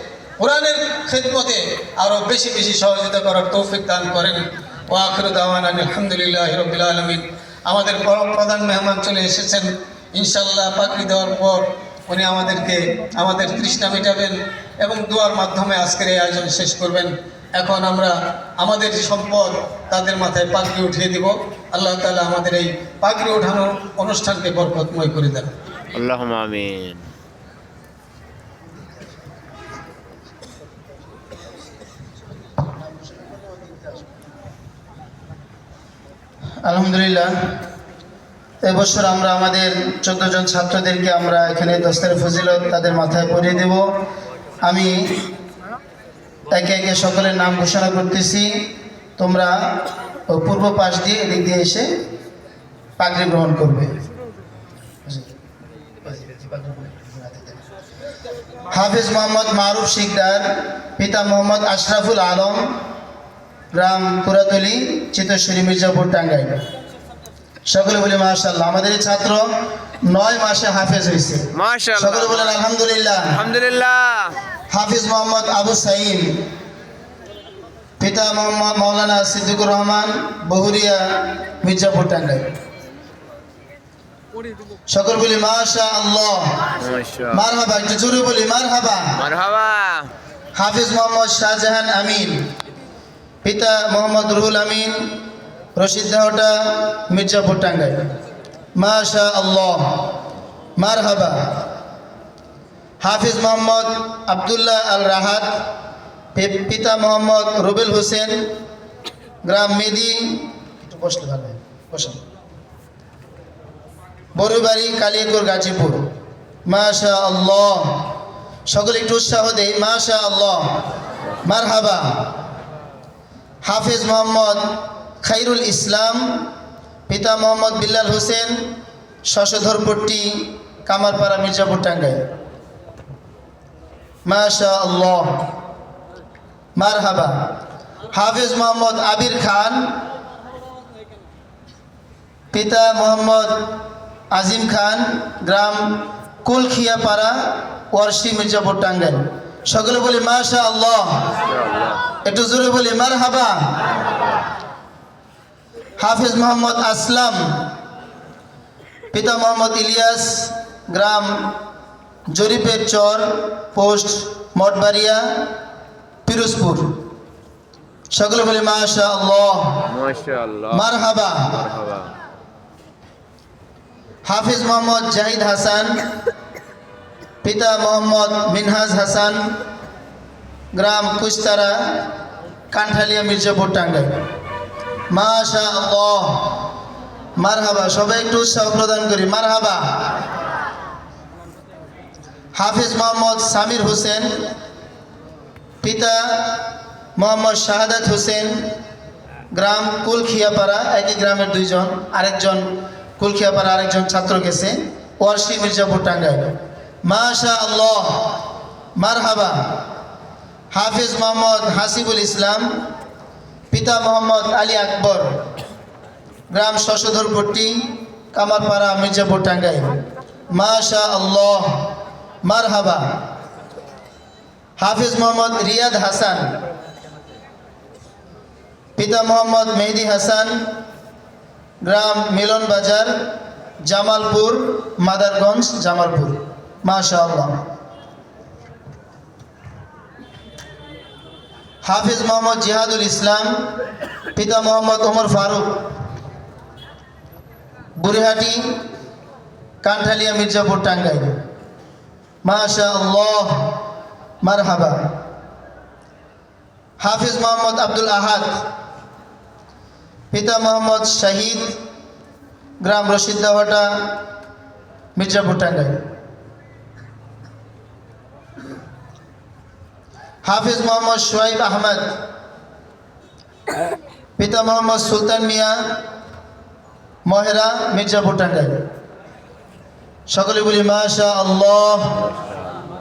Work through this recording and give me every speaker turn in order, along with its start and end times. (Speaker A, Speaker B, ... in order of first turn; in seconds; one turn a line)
Speaker A: 0.4-25.5
Speaker B: 25.9-27.0
Speaker C: 33.1-33.9
Speaker C: 36.6-37.3
Speaker C: 38.6-43.9
Speaker C: 44.6-45.3
Speaker C: 46.5-49.7
Speaker C: 50.3-51.9
Speaker C: 53.0-54.0
Speaker C: 56.0-57.5
Speaker C: 58.7-62.7
Speaker C: 63.7-66.6
Speaker C: 67.7-69.5
Speaker C: 70.0-73.4
Speaker B: 71.5-72.4
Speaker B: 73.4-74.3
Speaker C: 74.7-76.4
Speaker C: 78.0-82.5
Speaker C: 84.9-86.6
Speaker B: 86.8-87.4
Speaker C: 87.3-89.2
Speaker B: 89.2-90.1
Speaker C: 90.5-92.4
Speaker C: 93.4-95.2
Speaker C: 95.8-98.0
Speaker C: 98.8-100.1
Speaker C: 100.8-101.7
Speaker C: 103.0-105.6
Speaker C: 106.3-108.5
Speaker C: 109.4-112.2
Speaker C: 114.3-116.1
Speaker C: 116.7-118.1
Speaker C: 118.7-120.8
Speaker C: 121.4-122.3
Speaker C: 123.6-126.5
Speaker C: 127.1-128.7
Speaker C: 129.3-132.2
Speaker C: 134.2-135.5
Speaker C: 136.8-137.5
Speaker C: 138.1-139.9
Speaker C: 142.5-143.8
Speaker C: 144.3-151.3
Speaker C: 152.2-153.7
Speaker C: 156.0-157.7
Speaker C: 159.1-161.5
Speaker C: 162.3-165.5
Speaker C: 166.2-167.0
Speaker C: 168.1-169.9
Speaker B: 169.9-170.8
Speaker C: 170.7-171.6
Speaker B: 171.6-172.1
Speaker C: 174.2-176.1
Speaker C: 177.4-179.4
Speaker C: 180.7-182.1
Speaker C: 182.7-184.2
Speaker C: 185.1-186.7
Speaker C: 187.4-190.1
Speaker C: 192.5-194.5
Speaker C: 195.8-198.6
Speaker C: 199.5-209.8
Speaker C: 210.7-212.7
Speaker C: 213.7-215.4
Speaker C: 216.5-220.0
Speaker C: 220.5-221.9
Speaker C: 222.4-223.2
Speaker C: 224.8-226.5
Speaker C: 228.9-230.6
Speaker C: 231.8-233.3
Speaker C: 233.8-237.6
Speaker C: 241.8-243.6
Speaker C: 244.3-245.9
Speaker C: 248.0-248.8
Speaker C: 249.8-251.4
Speaker C: 252.4-253.8
Speaker C: 254.4-255.1
Speaker C: 257.0-258.6
Speaker C: 260.3-261.8
Speaker C: 262.8-264.2
Speaker C: 265.1-266.0
Speaker C: 270.4-272.2
Speaker C: 274.4-276.0
Speaker C: 277.2-278.8
Speaker C: 280.3-282.2